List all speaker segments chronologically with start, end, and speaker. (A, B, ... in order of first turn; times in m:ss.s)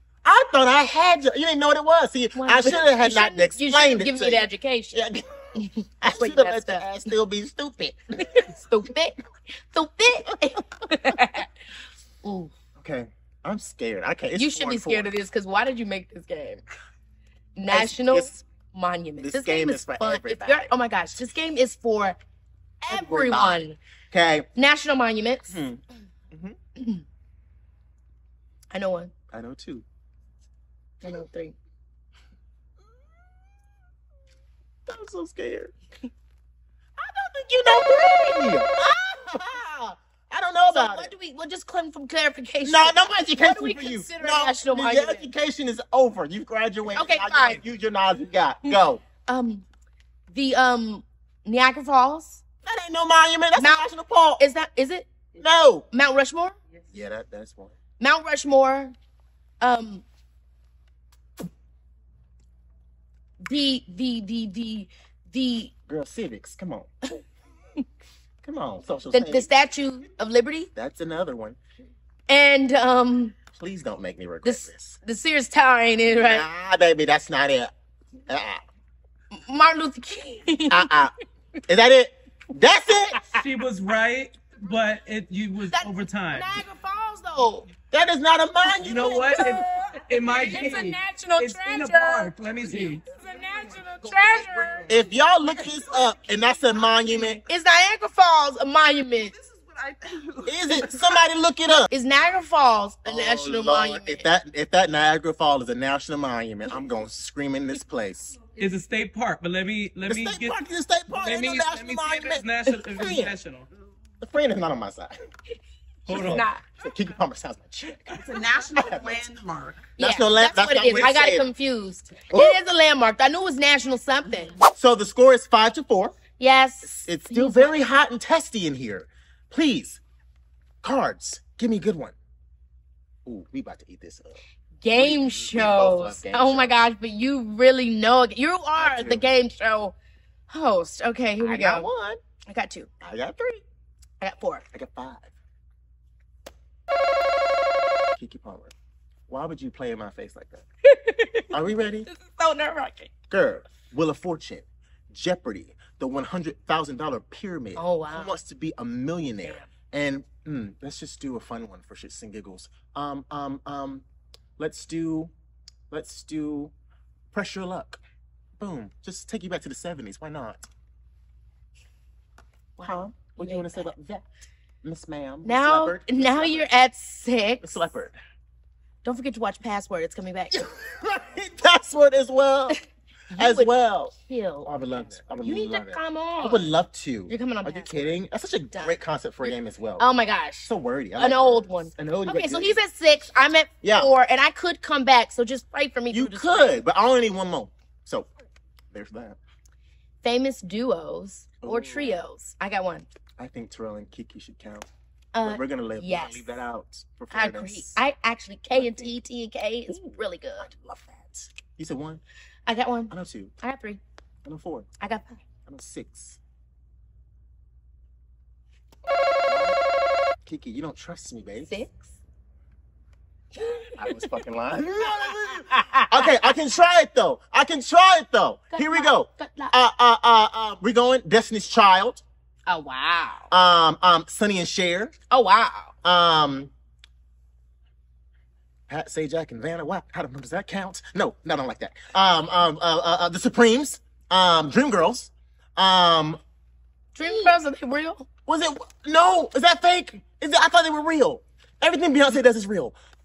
0:00.2-0:05.5 A
0:02.3-0:05.0 B
0:05.6-0:06.9 B
0:06.0-0:08.5 A
0:08.2-0:11.5 B
0:12.2-0:12.5 B
0:12.8-0:15.1 A
0:14.4-0:16.6 B
0:17.6-0:22.2 B
0:17.7-0:18.4 A
0:19.2-0:20.7 A
0:22.8-0:23.8 B
0:22.9-0:24.5 A
0:24.6-0:25.6 B
0:25.5-0:26.6 A
0:26.8-0:27.0 B
0:28.7-0:29.1 B
0:29.3-0:29.8 A
0:31.0-0:31.6 B
0:34.9-0:35.7 A
0:37.0-0:41.1 A
0:40.7-0:45.3 B
0:42.6-0:49.0 A
0:47.0-0:47.6 B
0:49.2-0:49.7 B
0:50.3-0:52.4 B
0:52.6-0:54.4 A
0:53.6-0:53.9 B
0:54.4-0:55.1 B
0:55.4-0:55.9 A
0:55.9-0:56.6 B
0:56.9-0:57.8 A
0:58.0-0:58.9 B
0:59.6-1:00.0 B
1:03.4-1:05.7 B
1:05.9-1:06.9 A
1:08.4-1:09.5 A
1:09.1-1:10.7 B
1:10.8-1:11.6 A
1:12.3-1:13.4 B
1:13.5-1:15.0 A
1:14.4-1:16.5 B
1:16.1-1:17.7 A
1:18.3-1:18.6 A
1:19.3-1:20.9 B
1:20.7-1:21.1 A
1:21.7-1:23.2 A
1:23.1-1:23.4 B
1:23.3-1:26.6 C
1:25.7-1:27.7 B
1:27.9-1:29.3 A
1:28.7-1:32.3 B
1:28.8-1:33.0 C
1:30.1-1:30.9 D
1:33.0-1:35.0 B
1:33.1-1:37.4 D
1:34.9-1:37.4 A
1:37.5-1:39.3 B
1:39.2-1:41.2 D
1:40.5-1:41.9 A
1:41.9-1:44.3 B
1:43.0-1:48.4 A
1:48.6-1:50.6 C
1:50.1-1:53.4 A
1:51.1-1:53.7 C
1:54.2-1:55.2 A
1:56.1-1:56.4 C
1:56.1-1:59.3 A
1:56.1-1:56.6 B
1:58.2-1:59.9 D
2:00.0-2:04.6 B
2:00.0-2:01.5 A
2:02.3-2:02.6 A
2:04.6-2:06.2 A
2:06.4-2:07.8 B
2:06.9-2:10.0 A
2:10.8-2:12.2 A
2:13.2-2:14.4 A
2:14.8-2:20.0 B
2:14.9-2:16.8 A
2:18.8-2:19.3 A
2:20.5-2:21.9 B
2:21.4-2:22.2 A
2:22.5-2:22.9 B
2:23.0-2:23.6 A
2:24.2-2:24.6 B
2:24.7-2:25.3 A
2:28.2-2:28.7 A
2:29.3-2:30.7 A
2:30.9-2:31.5 B
2:31.5-2:32.1 A
2:32.1-2:33.1 B
2:33.3-2:44.0 A
2:37.8-2:38.3 B
2:44.6-2:45.3 A
2:45.9-2:46.7 A
2:47.3-2:48.0 A
2:48.6-2:50.7 A
2:52.8-2:53.9 B
2:52.8-2:54.2 A
2:54.8-2:56.7 A
2:55.4-2:57.9 B
2:57.6-2:58.2 A
2:59.0-3:00.6 B
3:00.5-3:02.8 A
3:03.3-3:04.7 B
3:03.4-3:10.1 A
3:05.4-3:06.7 B
3:07.3-3:08.2 B
3:08.7-3:16.8 B
3:10.6-3:12.8 A
3:13.8-3:14.1 A
3:16.1-3:18.3 A
3:18.9-3:19.4 A
3:20.2-3:23.1 B
3:21.6-3:22.2 A
3:23.4-3:24.9 A
3:25.3-3:26.5 B
3:25.4-3:28.0 A
3:27.3-3:30.7 B
3:28.7-3:29.1 A
3:29.9-3:32.2 A
3:32.7-3:34.0 B
3:33.1-3:33.5 A
3:34.4-3:34.9 A
3:35.0-3:35.4 B
3:35.7-3:36.4 A
3:39.4-3:39.8 A
3:40.4-3:41.7 A
3:41.7-3:42.2 B
3:43.6-3:44.3 B
3:44.0-3:52.2 A
3:45.0-3:46.5 B
3:48.7-3:49.8 B
3:52.7-3:53.5 B
3:53.5-3:55.1 A
3:55.3-3:55.9 B
3:56.0-3:56.7 A
3:58.9-4:06.4 A
4:07.2-4:08.3 B
4:07.2-4:07.5 A
4:08.5-4:13.0 A